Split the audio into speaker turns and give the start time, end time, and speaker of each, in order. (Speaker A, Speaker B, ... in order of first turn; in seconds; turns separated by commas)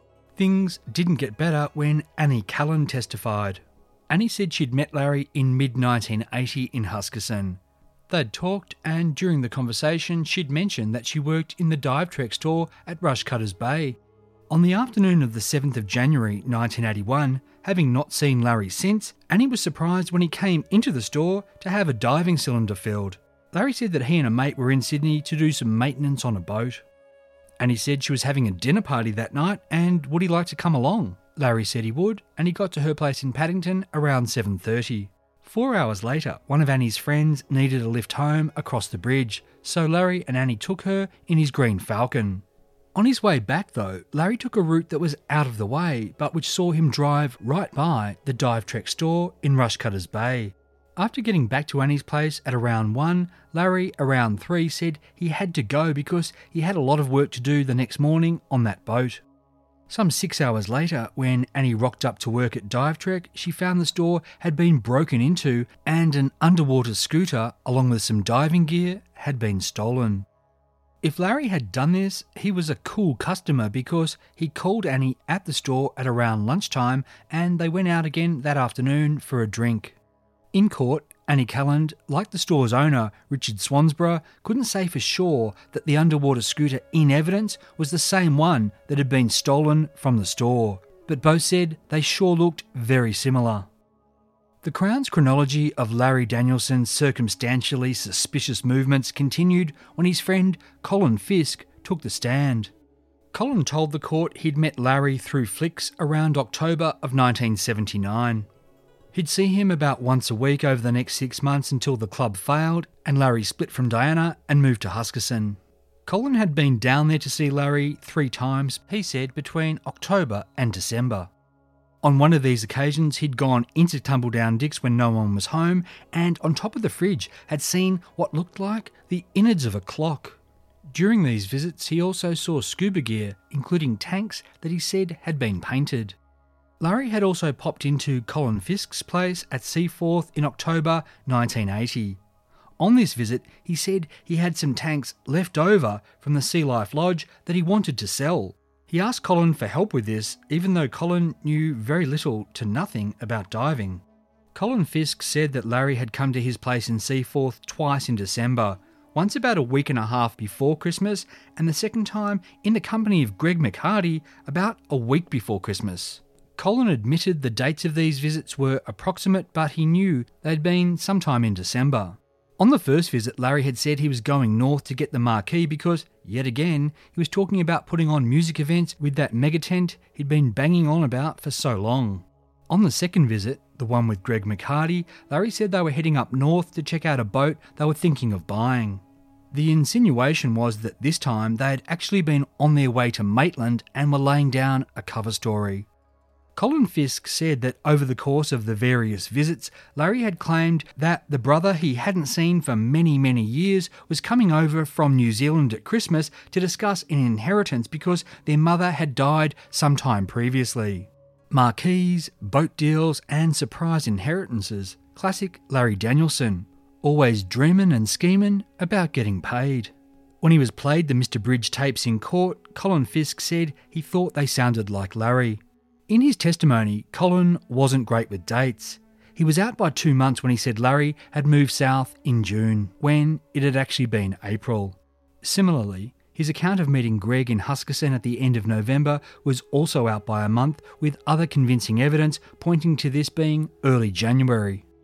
Speaker A: 0.4-14.0, Speaker A: 14.5-26.8, Speaker A: 27.6-59.2, Speaker A: 59.9-70.3, Speaker A: 71.0-80.0, Speaker A: 80.5-93.7, Speaker A: 94.6-102.7, Speaker A: 103.3-108.5, Speaker A: 109.1-121.3, Speaker A: 122.0-130.4, Speaker A: 130.9-136.2, Speaker A: 136.8-142.2, Speaker A: 142.8-195.9, Speaker A: 196.6-244.9